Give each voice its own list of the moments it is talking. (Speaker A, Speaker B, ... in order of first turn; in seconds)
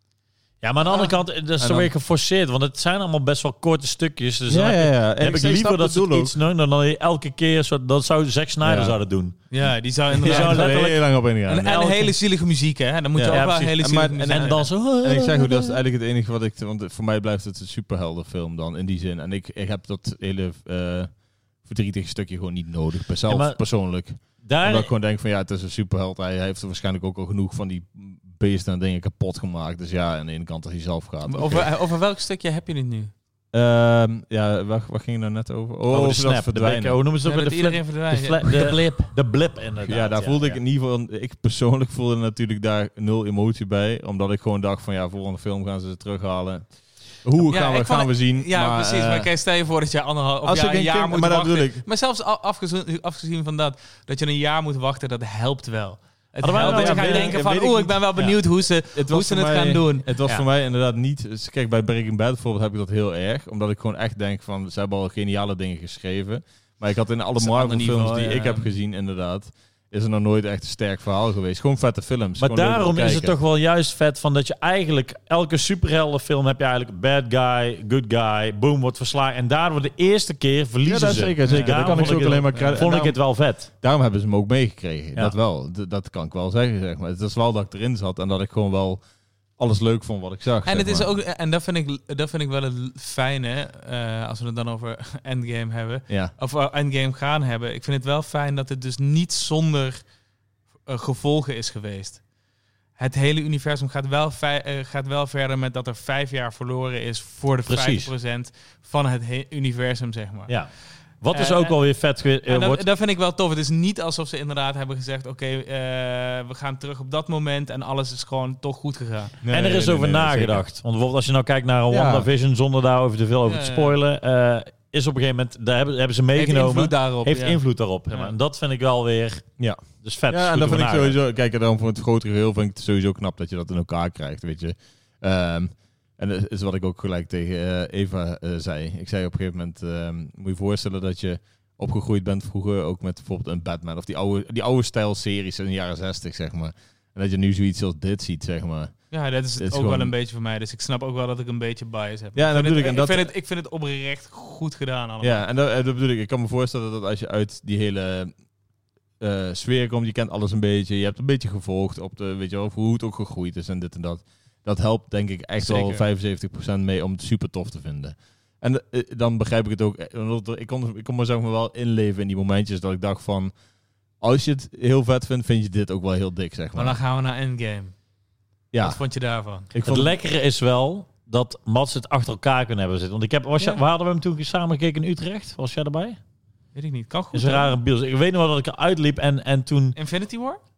Speaker A: 0.6-9.4, 10.2-11.0, 13.3-13.8, 14.3-15.8, 23.3-23.6, 24.4-24.9, 35.9-40.6, 56.4-57.4, 72.4-83.7, 107.7-108.1, 111.2-112.8, 119.5-129.5, 130.0-131.2, 179.8-186.2, 187.3-190.0
Speaker B: 1.6-1.9, 4.5-6.3, 8.6-8.9, 10.1-12.1, 13.1-21.1, 21.6-31.7, 33.5-37.0, 39.8-46.7, 47.2-49.3, 50.4-51.8, 56.5-58.1, 58.9-73.3, 80.8-89.0, 89.6-91.1, 119.4-120.6, 121.9-122.3, 129.6-149.0, 149.6-150.1, 152.3-153.3, 155.2-158.3, 159.2-173.5, 174.2-177.0, 178.7-179.0, 179.7-180.1
Speaker C: 9.5-14.7, 31.2-33.1, 37.2-39.0, 47.4-60.1, 67.4-68.7, 81.4-82.8, 90.6-100.0, 100.8-102.2, 103.0-110.5, 111.3-111.8, 112.5-119.4, 123.5-124.0, 126.3-128.3, 149.1-155.4, 165.6-166.1, 176.7-177.9, 178.8-179.7, 186.7-187.8, 189.9-190.6